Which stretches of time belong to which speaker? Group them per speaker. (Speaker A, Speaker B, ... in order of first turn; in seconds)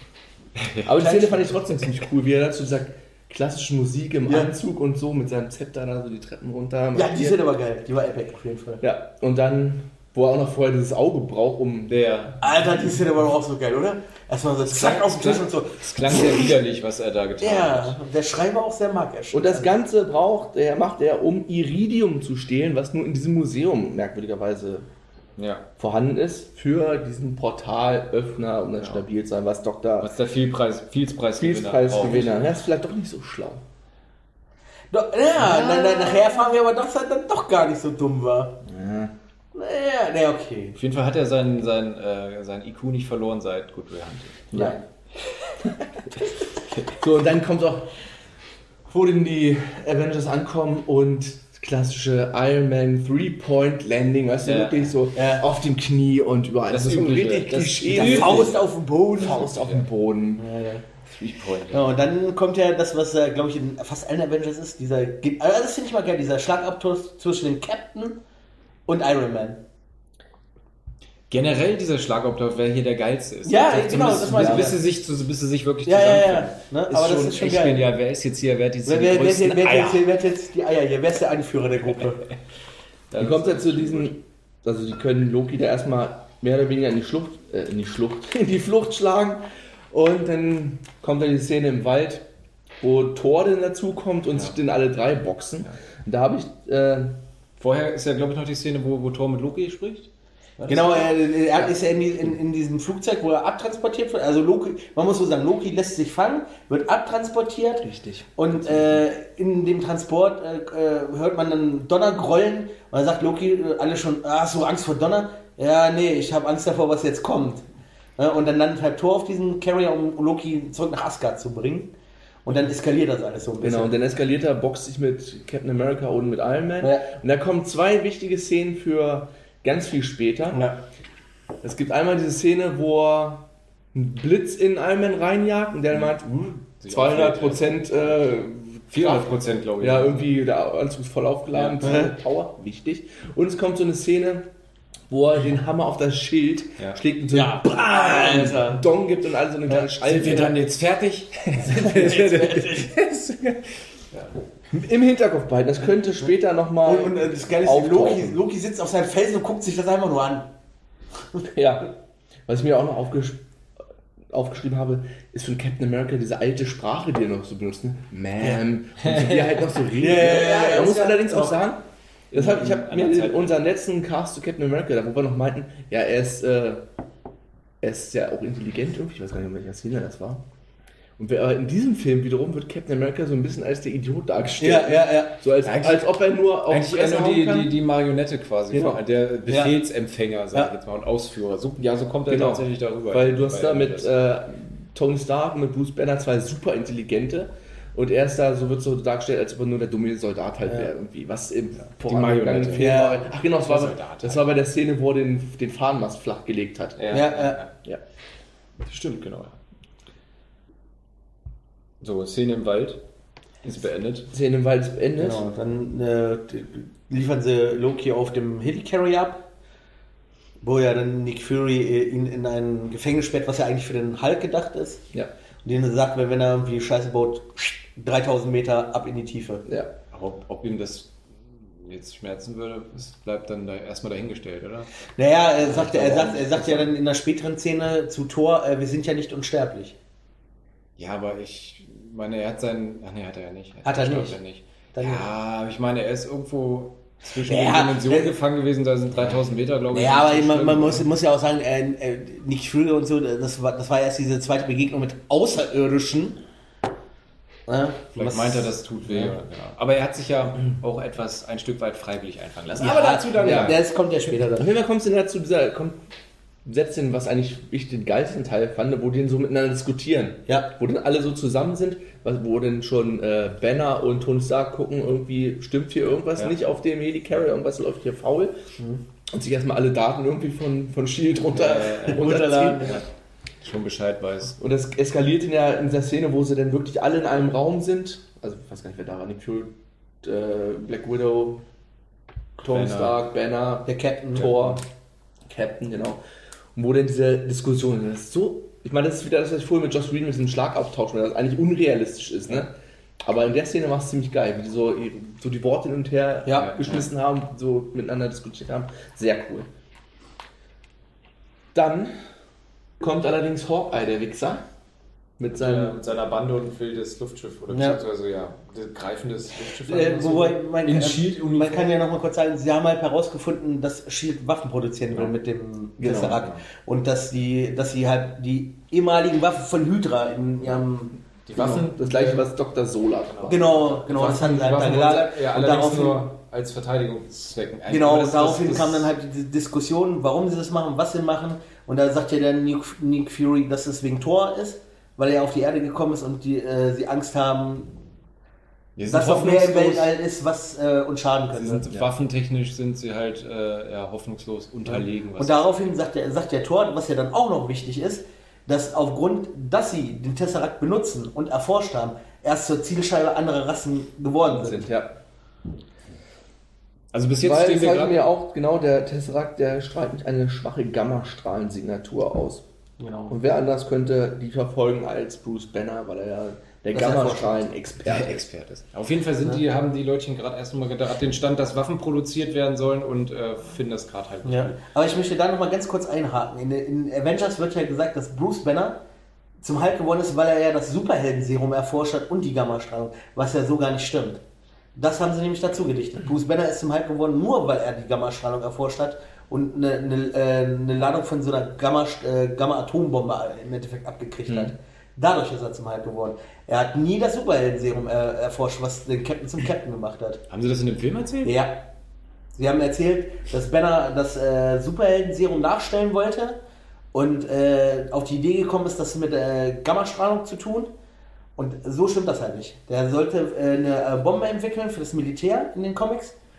Speaker A: 0.6-0.9, 11.9-12.4, 14.7-18.0, 25.4-25.6, 28.8-29.0, 30.0-32.4, 35.5-36.1, 40.7-44.5, 54.4-54.9, 56.7-58.7, 59.2-59.9, 61.1-61.9, 71.3-80.1, 83.1-84.1, 97.6-101.7, 107.9-108.9, 135.9-138.2, 138.9-140.3, 141.5-142.0, 149.7-154.3, 169.0-169.7, 170.2-171.2, 172.3-173.5, 185.6-194.1, 201.8-204.4, 207.0-207.7, 208.8-209.6, 212.0-213.0, 213.6-214.3, 230.1-231.1, 231.8-234.9, 235.9-236.8, 241.0-251.1, 258.1-263.8, 281.5-282.3, 283.6-284.6, 292.6-293.2, 306.6-307.1, 315.5-322.0, 326.0-326.6, 331.4-332.5, 333.3-339.1, 349.0-350.1, 351.6-355.7, 367.1-368.2, 378.0-384.8, 410.5-411.6
Speaker B: 0.8-7.4, 8.8-12.0, 19.3-24.9, 25.8-30.1, 31.4-33.6, 38.6-39.1, 44.5-44.8, 46.9-47.9, 48.9-58.6, 59.2-60.5, 74.2-74.7, 83.2-92.3, 92.8-97.2, 123.6-130.6, 131.6-144.5, 145.1-150.6, 154.7-158.4, 161.5-161.9, 162.5-163.4, 164.3-176.8, 177.8-180.4, 181.2-187.7, 188.7-189.0, 192.3-207.2, 214.3-215.4, 229.7-229.9, 235.7-236.8, 263.4-263.8, 264.5-266.0, 266.6-278.6, 279.3-283.0, 284.6-291.6, 292.6-294.8, 295.4-296.2, 296.8-309.7, 311.7-312.1, 313.0-314.6, 315.4-315.9, 326.0-326.4, 331.5-333.7, 364.5-365.1, 367.4-372.6, 373.3-378.4, 404.5-404.7
Speaker C: 1.0-1.5, 4.2-4.5, 6.9-8.8, 12.4-16.5, 17.4-19.7, 34.9-38.6, 39.5-40.8, 44.5-44.8, 55.1-55.4, 57.9-59.4, 60.4-60.8, 61.7-68.2, 68.9-69.6, 73.4-74.8, 75.8-77.9, 78.8-82.2, 100.7-117.6, 118.2-121.9, 122.4-123.9, 126.8-127.1, 141.8-142.1, 147.3-148.8, 151.7-152.9, 156.8-160.5, 170.0-171.5, 184.6-185.3, 189.5-189.7, 202.8-203.3, 207.1-207.6, 215.2-219.4, 220.6-225.0, 225.6-229.6, 235.2-239.9, 243.8-244.4, 244.9-245.2, 247.4-248.3, 249.9-256.4, 257.7-258.7, 262.8-264.7, 282.1-283.0, 293.9-294.5, 306.4-306.7, 317.7-318.0, 319.8-331.2, 333.5-336.2, 337.9-347.9, 349.1-351.8, 354.9-364.9, 373.0-373.4, 376.9-377.6, 384.4-389.0, 389.6-394.4, 394.9-410.4, 411.4-411.8, 412.6-416.6, 417.1-420.9, 421.6-426.3